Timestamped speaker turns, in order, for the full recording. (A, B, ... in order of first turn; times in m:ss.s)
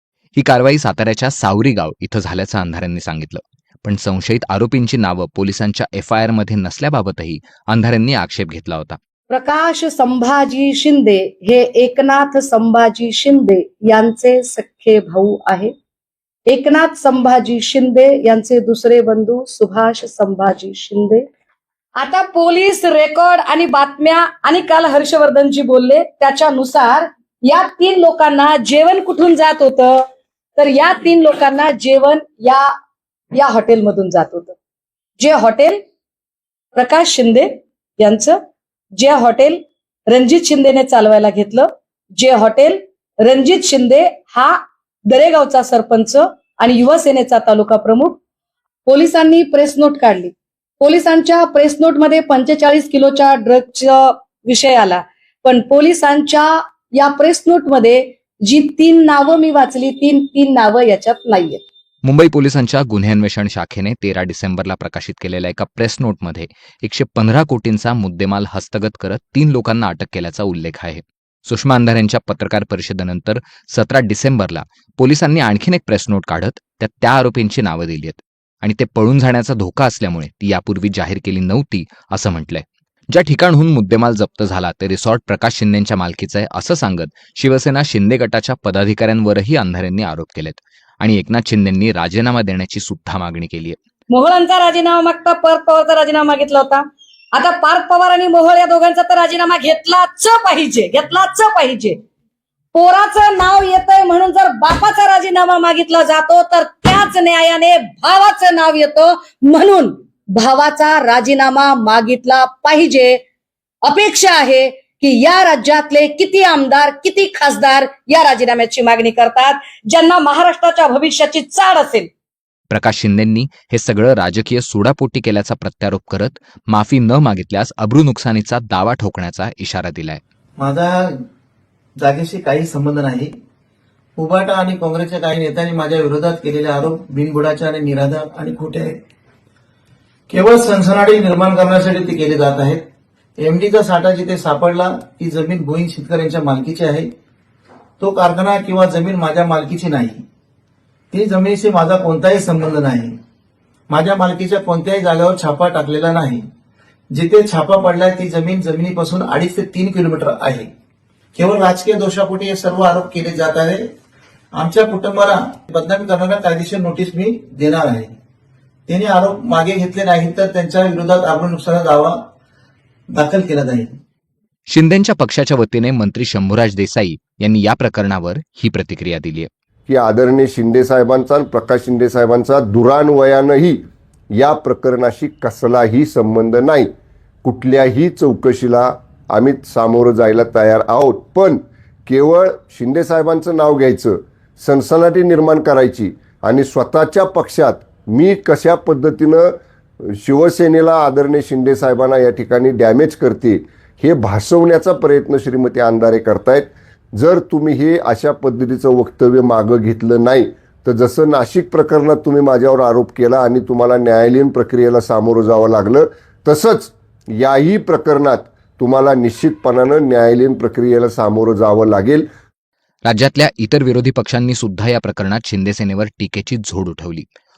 0:00.4-0:09.0 A
0:09.3-0:15.7 B
0:16.5-0:21.3 B
0:22.0-0:30.0 B
0:30.6-0:32.7 B
0:33.3-0:34.6 B
0:35.2-0:35.8 B
0:36.7-0:38.4 B
0:39.0-0:48.2 B
0:48.9-1:01.6 B
1:02.0-1:33.8 A
1:34.1-1:42.0 B
1:42.7-1:53.2 B
1:53.8-2:02.1 B
2:02.7-2:10.2 A
2:10.6-2:11.1 C
2:12.0-2:13.3 C
2:14.2-2:19.0 C
2:20.3-2:22.9 C
2:23.4-2:27.1 C
2:28.0-2:30.2 C
2:31.1-2:33.2 C
2:33.9-2:36.4 C
2:37.1-2:40.7 C
2:41.4-2:43.9 C
2:44.5-2:48.2 C
2:48.9-2:52.2 C
2:53.1-2:54.0 C
2:54.7-2:59.5 A
2:59.9-3:03.8 D
3:04.3-3:06.9 D
3:07.4-3:19.5 D
3:20.0-3:42.3 D
3:43.0-3:47.3 A